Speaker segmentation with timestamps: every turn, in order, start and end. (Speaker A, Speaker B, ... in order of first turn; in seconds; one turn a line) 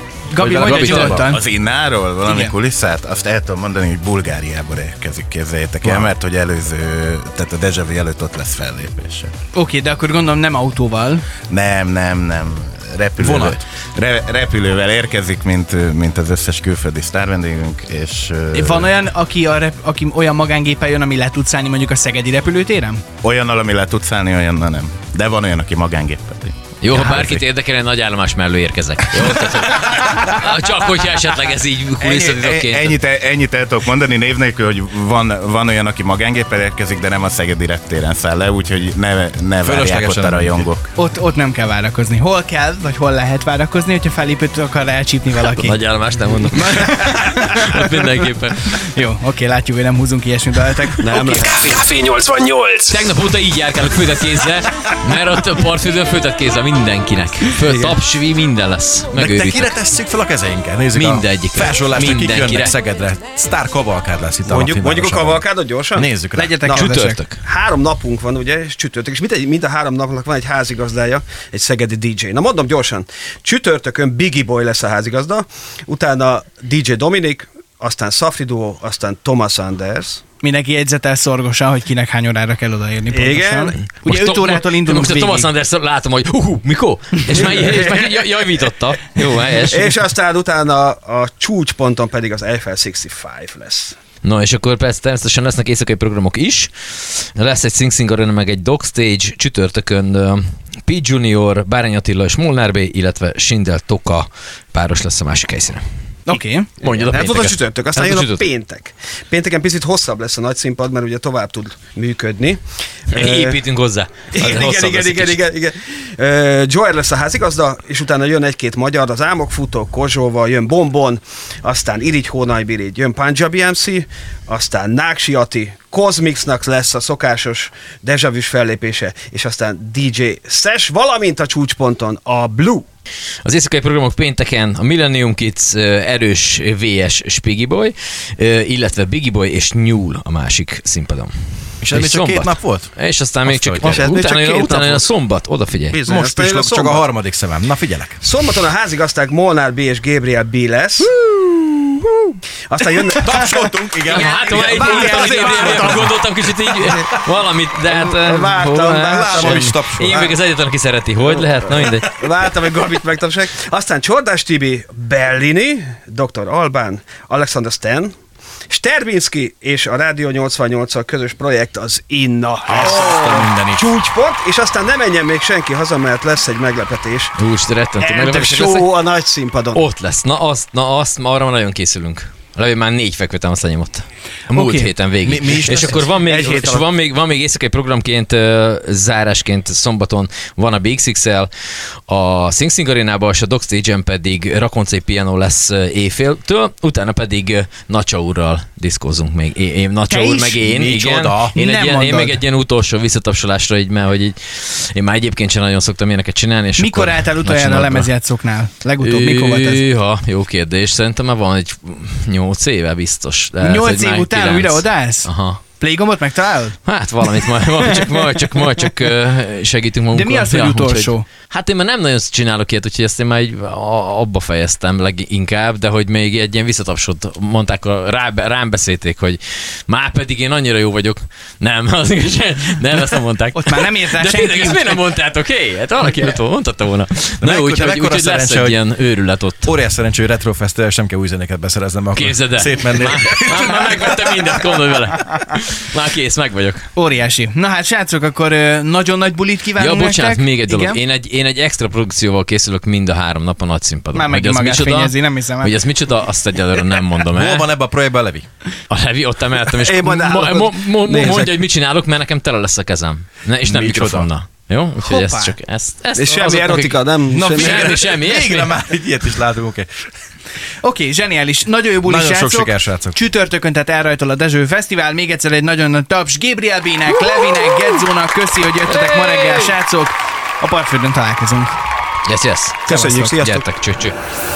Speaker A: 0.3-1.4
Speaker B: 0.4-1.3
Speaker C: 0.4-1.1
Speaker D: 0.7-9.3
Speaker A: 2.3-2.5
Speaker B: 5.8-6.1
Speaker A: 9.5-11.2
Speaker D: 11.5-18.9
Speaker B: 13.2-13.6
Speaker A: 18.5-23.0
Speaker D: 23.2-27.4
Speaker C: 26.8-33.0
Speaker D: 32.0-40.9
Speaker B: 39.6-40.7
Speaker A: 41.0-45.8
Speaker C: 45.5-48.8
Speaker A: 46.6-47.8
Speaker A: 48.8-51.4
Speaker E: 51.0-53.0
Speaker C: 52.9-59.7
Speaker E: 57.6-58.0
Speaker B: 59.1-66.7
Speaker C: 60.9-62.7
Speaker E: 64.5-66.1
Speaker A: 66.3-67.2
Speaker E: 66.7-80.2
Speaker C: 66.8-67.4
Speaker A: 80.4-85.5
Speaker E: 83.1-83.8
Speaker C: 84.0-89.9
Speaker E: 87.3-88.5
Speaker E: 89.7-94.0
Speaker C: 94.2-105.8
Speaker A: 106.3-106.7
Speaker C: 106.8-108.5
Speaker E: 106.8-113.6
Speaker C: 113.1-115.4
Speaker E: 114.3-132.8
Speaker C: 133.4-141.3
Speaker B: 141.8-142.9
Speaker C: 141.9-146.0
Speaker B: 143.4-144.1
Speaker E: 143.8-145.1
Speaker E: 145.9-147.1
Speaker B: 146.1-148.2
Speaker E: 148.2-156.2
Speaker B: 153.1-156.1
Speaker C: 154.1-162.2
Speaker E: 156.8-157.2
Speaker E: 157.9-160.3
Speaker B: 159.0-160.3
Speaker E: 161.3-168.1
Speaker E: 168.7-177.3
Speaker B: 172.7-173.9
Speaker C: 177.4-178.9
Speaker E: 178.0-179.8
Speaker C: 179.7-191.5
Speaker A: 184.5-184.9
Speaker B: 185.2-186.5
Speaker E: 185.8-186.9
Speaker C: 192.1-208.1
Speaker A: 200.1-200.7
Speaker B: 200.6-201.5
Speaker A: 201.5-202.4
Speaker A: 206.8-209.8
Speaker C: 209.0-215.6
Speaker A: 213.6-216.8
Speaker C: 216.9-239.8
Speaker A: 220.1-221.3
Speaker A: 233.6-235.0
Speaker A: 236.1-236.3
Speaker B: 237.4-238.8
Speaker B: 239.6-244.6
Speaker C: 242.2-246.9
Speaker A: 246.9-251.0
Speaker C: 249.8-257.7
Speaker A: 254.1-255.8
Speaker B: 257.3-258.5
Speaker C: 258.9-267.0
Speaker E: 259.7-261.6
Speaker B: 263.6-264.3
Speaker A: 265.0-265.6
Speaker E: 266.1-267.9
Speaker B: 267.3-269.9
Speaker C: 267.5-268.7
Speaker A: 270.8-281.7
Speaker B: 272.0-273.2
Speaker C: 278.9-279.7
Speaker C: 282.3-284.2
Speaker E: 282.9-283.7
Speaker A: 282.9-283.3